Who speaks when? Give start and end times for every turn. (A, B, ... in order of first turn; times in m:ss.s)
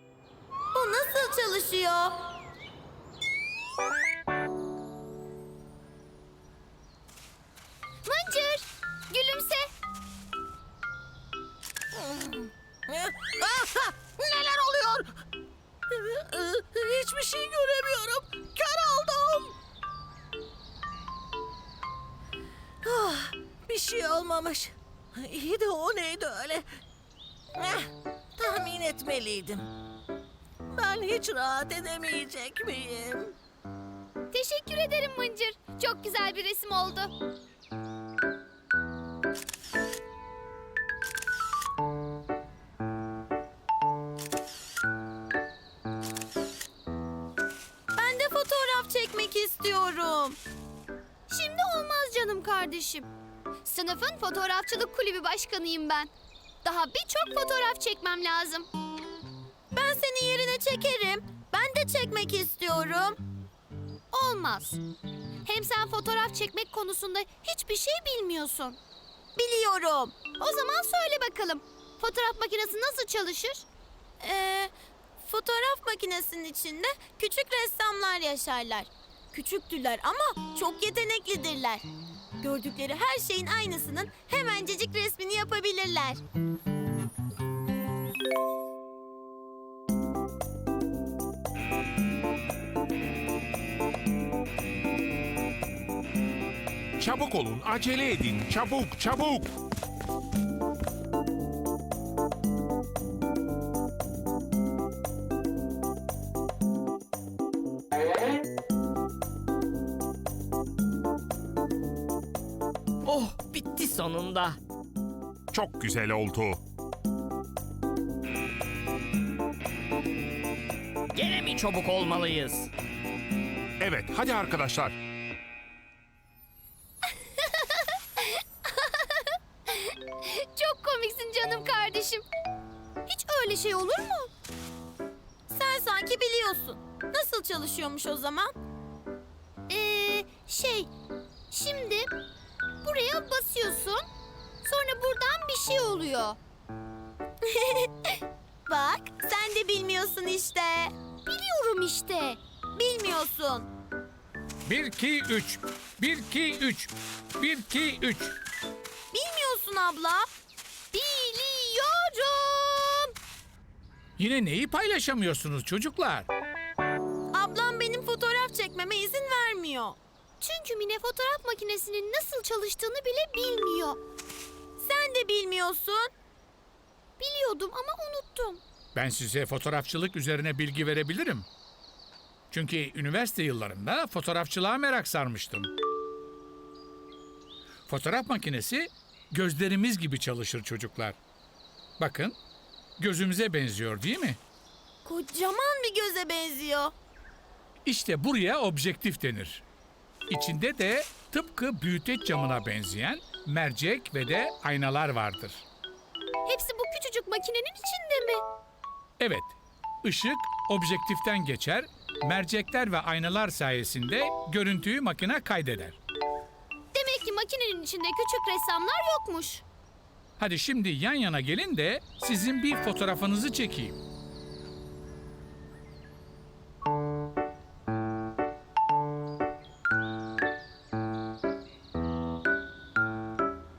0:00.7-0:02.2 A
0:08.1-0:09.7 B
0:12.0-0:15.1 C
0:15.9-0:19.6 C
0:22.8-0:26.6 C
0:27.6-0:29.6 C
0:30.7-0:33.3 C
0:34.3-0:37.1 B
0:48.0-0:50.4 A
0:51.3-0:53.1 B
0:53.6-0:56.1 B
0:56.6-0:58.7 B
0:59.7-1:03.2 A
1:04.1-1:04.8 B
1:05.4-1:08.8 B
1:09.4-1:10.2 A
1:10.3-1:13.7 B
1:14.2-1:21.8 A
1:22.4-1:26.2 A
1:37.0-1:39.5 D
1:53.1-1:54.5 E
1:55.5-1:56.6 D
2:01.2-2:02.7 E
2:03.8-2:05.0 D
2:09.7-2:12.2 B
2:13.1-2:14.3 B
2:15.5-2:18.5 A
2:19.7-2:20.9 B
2:21.5-2:22.1 B
2:22.8-2:24.1 B
2:24.6-2:26.4 B
2:27.6-2:27.9 A
2:28.7-2:30.9 A
2:31.3-2:32.4 B
2:32.8-2:33.7 A
2:34.7-2:38.4 F
2:39.1-2:40.3 A
2:40.9-2:43.1 B
2:44.2-2:46.3 F
2:47.3-2:50.0 A
2:50.4-2:54.0 B
2:54.8-2:56.1 A
2:57.2-2:58.6 B
2:59.0-3:01.5 F
3:02.5-3:05.7 F
3:07.9-3:11.2 F
3:12.0-3:12.4 F
3:13.0-3:14.4 F
3:15.0-3:16.9 A
3:17.8-3:19.6 F
3:20.3-3:25.7 F
3:26.5-3:28.4 B
3:29.2-3:36.0 F
3:36.9-3:39.6 B
3:40.4-3:44.0 F